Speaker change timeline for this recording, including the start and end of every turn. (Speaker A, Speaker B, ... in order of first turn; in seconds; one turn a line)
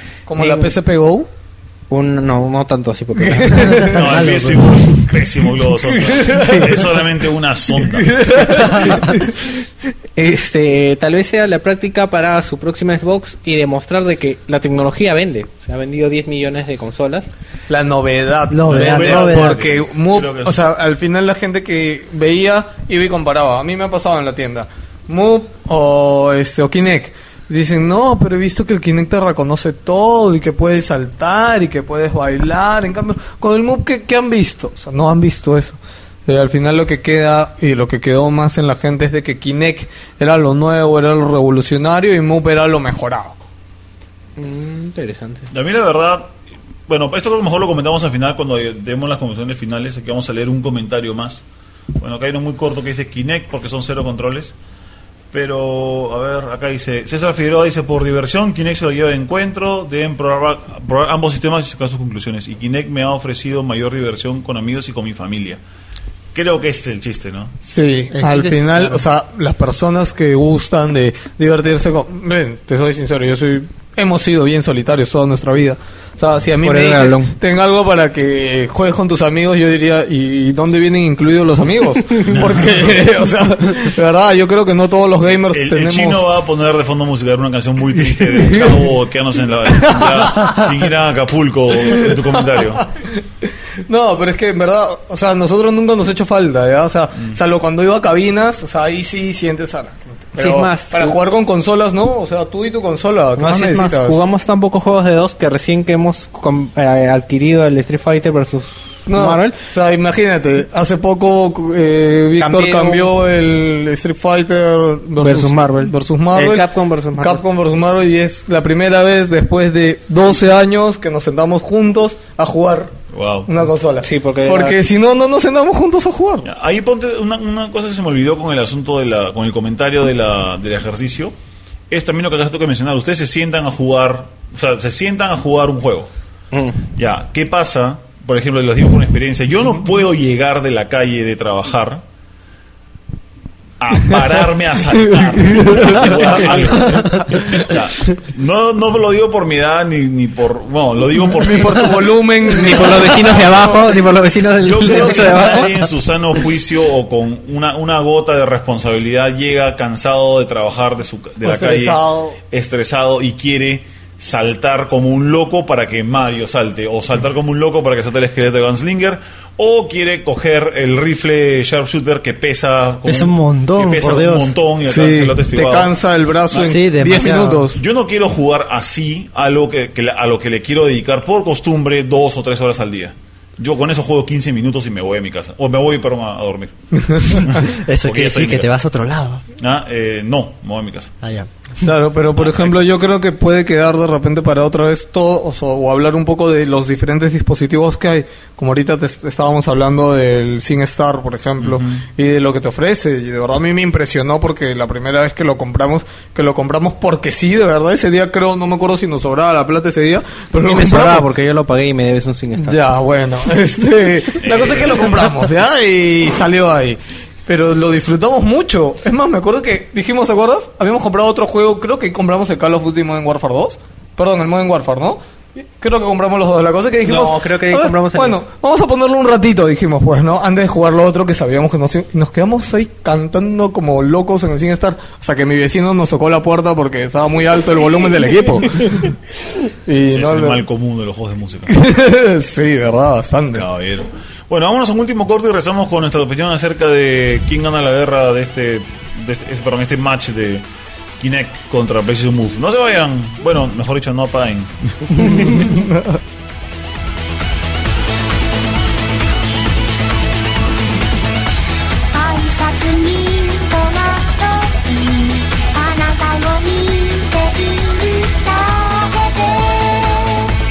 Speaker A: 0.3-1.3
Speaker B: 0.3-0.7
Speaker B: 1.9-3.8
Speaker A: 3.3-4.0
Speaker C: 3.5-5.1
Speaker D: 3.8-8.9
Speaker A: 5.9-6.9
Speaker A: 7.8-9.5
Speaker B: 10.2-17.3
Speaker A: 17.7-43.4
Speaker C: 18.5-19.6
Speaker D: 18.7-20.6
Speaker B: 44.4-45.5
Speaker D: 45.5-46.3
Speaker D: 46.9-51.4
Speaker D: 52.0-54.5
Speaker D: 55.3-65.6
Speaker D: 66.3-67.5
Speaker A: 67.6-86.2
Speaker C: 68.1-69.0
Speaker B: 76.6-77.3
Speaker D: 82.3-83.0
Speaker D: 85.5-92.9
Speaker A: 88.2-88.8
Speaker A: 89.8-90.6
Speaker A: 91.9-93.2
Speaker A: 93.8-104.2
Speaker B: 100.3-101.2
Speaker B: 103.4-109.6
Speaker A: 109.1-122.9
Speaker B: 112.4-113.1
Speaker B: 115.2-117.4
Speaker D: 123.1-123.5
Speaker A: 123.5-126.5
Speaker B: 124.0-124.8
Speaker D: 126.4-131.3
Speaker D: 131.9-136.1
Speaker B: 136.5-136.8
Speaker D: 136.9-142.0
Speaker D: 143.8-152.1
Speaker A: 145.1-147.7
Speaker A: 151.2-153.8
Speaker B: 152.5-155.7
Speaker D: 154.6-162.0
Speaker A: 161.4-162.4
Speaker D: 162.5-175.9
Speaker C: 173.0-174.6
Speaker A: 174.8-177.8
Speaker C: 176.5-177.7
Speaker D: 177.7-188.7
Speaker A: 187.0-187.4
Speaker C: 187.4-189.4
Speaker D: 189.6-191.1
Speaker C: 191.2-191.8
Speaker A: 191.8-211.2
Speaker D: 192.4-192.9
Speaker D: 201.6-202.0
Speaker B: 210.6-212.8
Speaker A: 212.6-225.2
Speaker D: 214.4-215.3
Speaker A: 225.8-239.2
Speaker B: 227.0-228.4
Speaker A: 239.8-240.6
Speaker D: 240.1-241.7
Speaker A: 241.7-243.7
Speaker D: 243.5-250.6
Speaker D: 251.2-255.7
Speaker A: 255.6-256.0
Speaker E: 262.1-270.6